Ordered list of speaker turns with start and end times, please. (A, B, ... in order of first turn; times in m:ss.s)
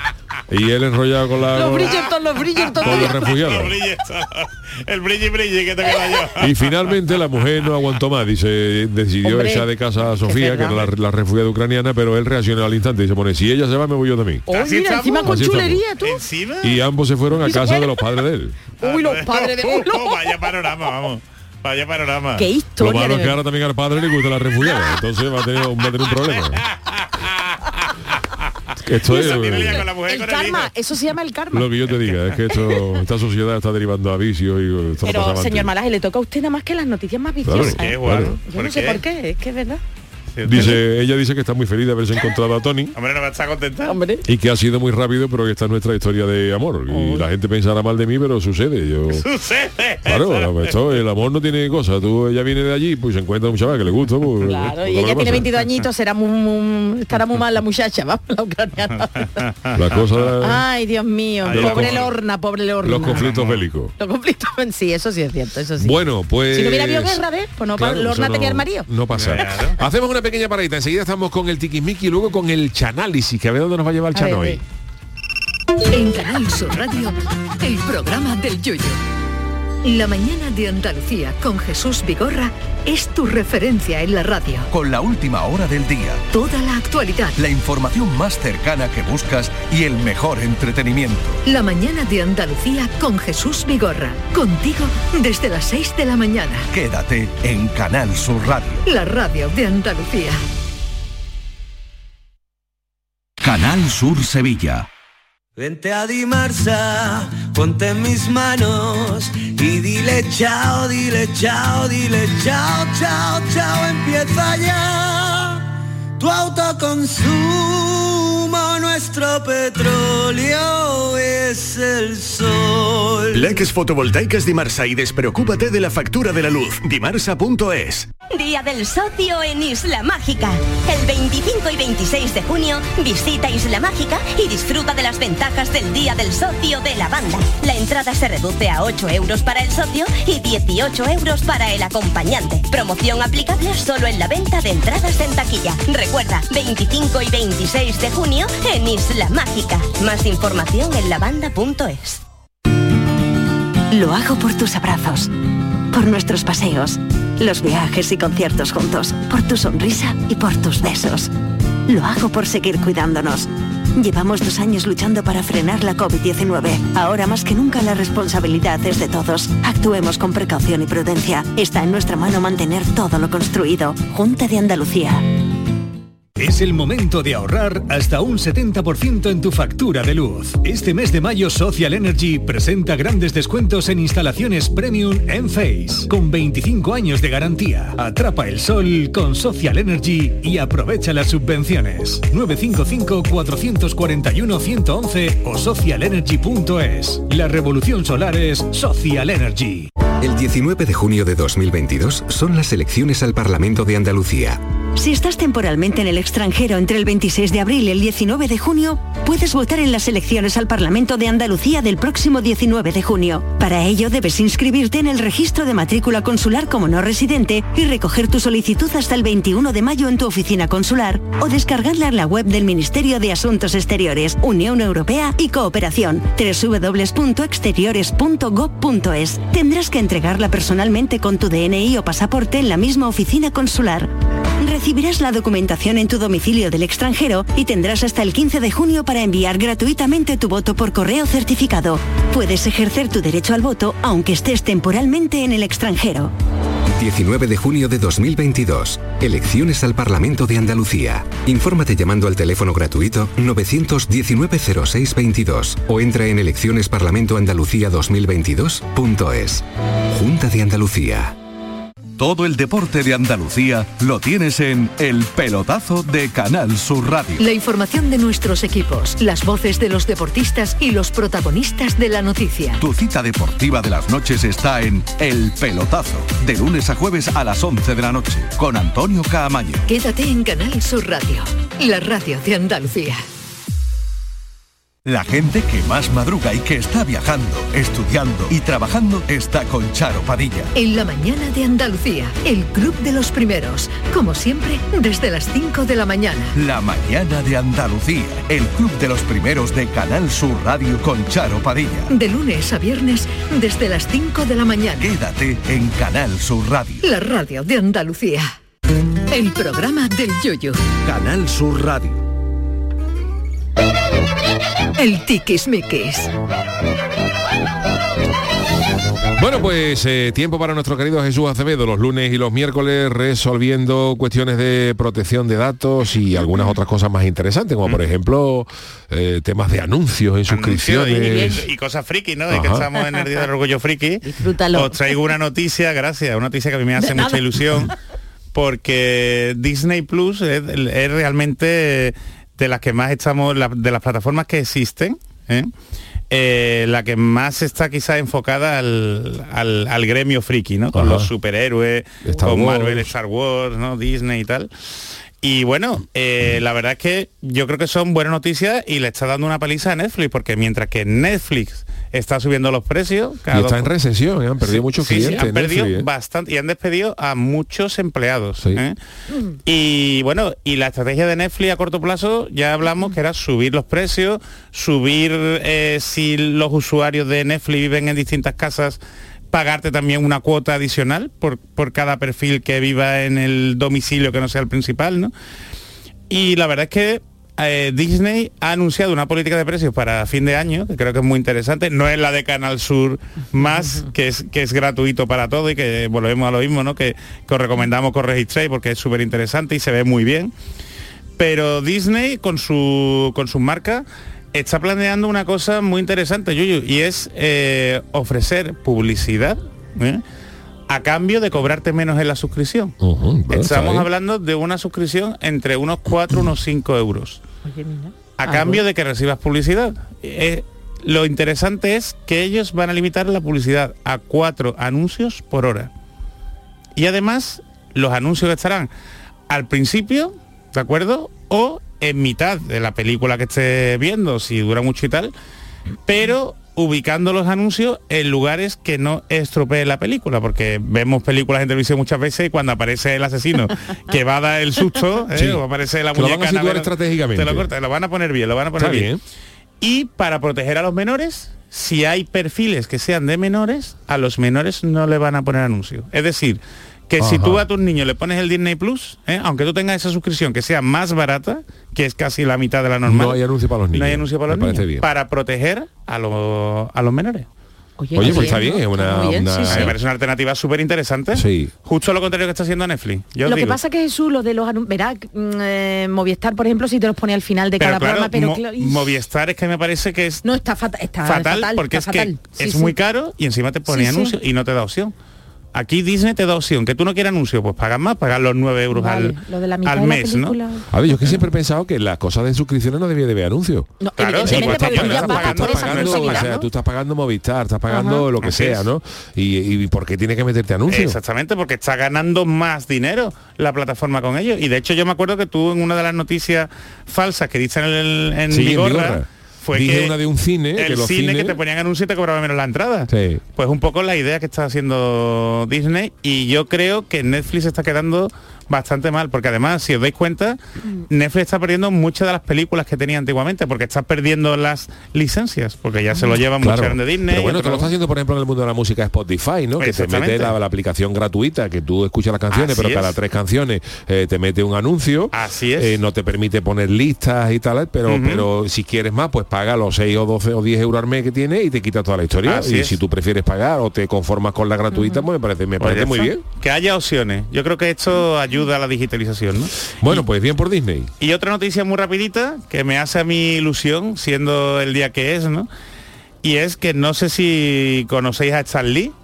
0:00.5-0:02.0 A
0:01.5-0:03.2 B
0:02.5-0:06.7 C
0:02.8-0:03.8 A
0:06.4-0:14.5 A
0:09.2-0:10.9 B
0:14.4-0:16.2 B
0:14.5-0:16.8 C
0:15.2-0:15.8 A
0:16.6-0:18.6 A
0:17.4-0:18.0 B
0:18.8-0:20.5 B
0:18.8-0:22.4 C
0:22.4-0:23.4 B
0:22.7-0:26.6 A
0:26.1-0:27.9 C
0:28.8-0:29.8 A
0:29.0-0:30.7 C
0:29.0-0:31.7 B
0:31.5-0:35.7 A
0:31.9-0:32.4 C
0:35.0-0:39.8 B
0:37.4-0:38.4 A
0:37.5-0:39.0 C
0:40.4-0:40.8 C
0:40.4-0:42.9 A
0:43.0-0:44.0 C
0:43.9-0:44.2 B
0:44.2-0:49.2 A
0:46.9-0:47.2 B
0:49.1-0:50.8 C
0:50.0-0:55.5 A
0:54.4-0:59.4 B
0:59.7-1:00.2 C
0:59.7-1:00.6 A
1:00.4-1:03.2 B
1:01.4-1:02.1 C
1:01.5-1:02.1 A
1:02.8-1:03.9 A
1:03.1-1:03.7 C
1:04.0-1:06.0 B
1:05.8-1:06.8 D
1:06.5-1:08.9 B
1:06.8-1:07.1 A
1:07.8-1:14.6 D
1:09.2-1:09.8 C
1:14.1-1:14.6 B
1:15.9-1:19.0 E
1:19.8-1:24.7 E
1:24.7-1:26.2 F
1:26.3-1:27.4 E
1:27.4-1:31.4 F
1:31.4-1:36.7 E
1:36.7-1:38.8 F
1:38.8-1:40.4 E
1:43.4-1:44.9 F
1:45.6-1:55.6 G
1:56.2-2:03.4 G
2:03.3-2:08.1 H
2:08.3-2:32.2 I
2:33.9-2:35.3 J
2:35.9-2:41.3 J
2:41.9-2:55.2 J
2:56.4-3:19.9 K
3:20.2-3:24.6 L
3:24.9-3:54.1 J
3:54.6-4:06.3 J
4:07.0-4:21.3 L
4:22.2-4:27.4 F
4:27.4-4:32.8 E
4:32.8-4:39.8 F
4:39.9-4:43.2 E
4:45.0-4:50.7 F
4:50.7-4:56.6 E
4:56.6-5:02.1 F
5:02.1-5:05.1 E
5:05.0-5:07.0 F
5:07.0-5:08.6 E
5:09.3-5:10.9 E
5:11.0-5:12.2 F
5:15.0-5:16.3 E
5:19.4-5:31.6 D
5:30.5-5:37.9 C
5:32.5-5:32.9 D
5:34.2-5:35.0 B
5:37.0-5:37.6 B
5:38.5-5:45.7 C
5:46.3-5:54.7 C
5:51.0-5:51.2 A
5:52.3-5:53.0 A
5:55.4-6:03.9 C
6:03.5-6:06.0 D
6:04.7-6:09.0 C
6:09.6-6:19.0 C
6:19.5-6:25.3 C
6:26.3-6:40.5 C
6:41.4-6:50.2 C
6:50.9-6:53.0 C
6:53.0-6:54.0 A
6:53.5-6:57.4 C
6:57.6-6:58.8 B
6:58.4-7:05.9 C
7:07.0-7:08.9 C
7:09.5-7:15.3 C
7:16.1-7:29.1 C
7:25.3-7:25.6 D
7:26.1-7:27.6 D
7:28.8-7:29.2 D
7:29.8-7:43.4 C
7:37.2-7:37.6 D
7:43.0-7:45.0 D
7:43.9-7:47.4 C
7:48.0-7:49.9 B
7:48.2-7:49.9 D
7:48.2-7:48.5 C
7:49.7-7:53.8 C
7:51.3-7:51.7 D
7:53.4-7:59.0 B
7:57.8-8:00.4 C
8:00.4-8:02.9 B
8:01.2-8:05.1 C
8:03.9-8:04.3 B
8:05.7-8:10.6 C
8:08.9-8:10.8 B
8:10.9-8:13.9 D
8:14.0-8:16.6 B
8:14.2-8:16.6 C
8:14.4-8:21.2 D
8:17.9-8:18.2 B
8:18.4-8:18.8 C
8:20.9-8:30.2 C
8:28.5-8:31.6 D
8:30.8-8:47.9 C
8:33.1-8:33.4 D
8:46.6-9:06.4 D
8:49.8-8:50.5 C
8:52.5-8:53.1 C
8:55.3-8:56.0 C
8:58.1-8:58.4 C
9:02.4-9:03.0 C
9:05.8-9:10.2 C
9:10.0-9:11.1 D
9:11.2-9:15.7 C
9:16.4-9:19.1 C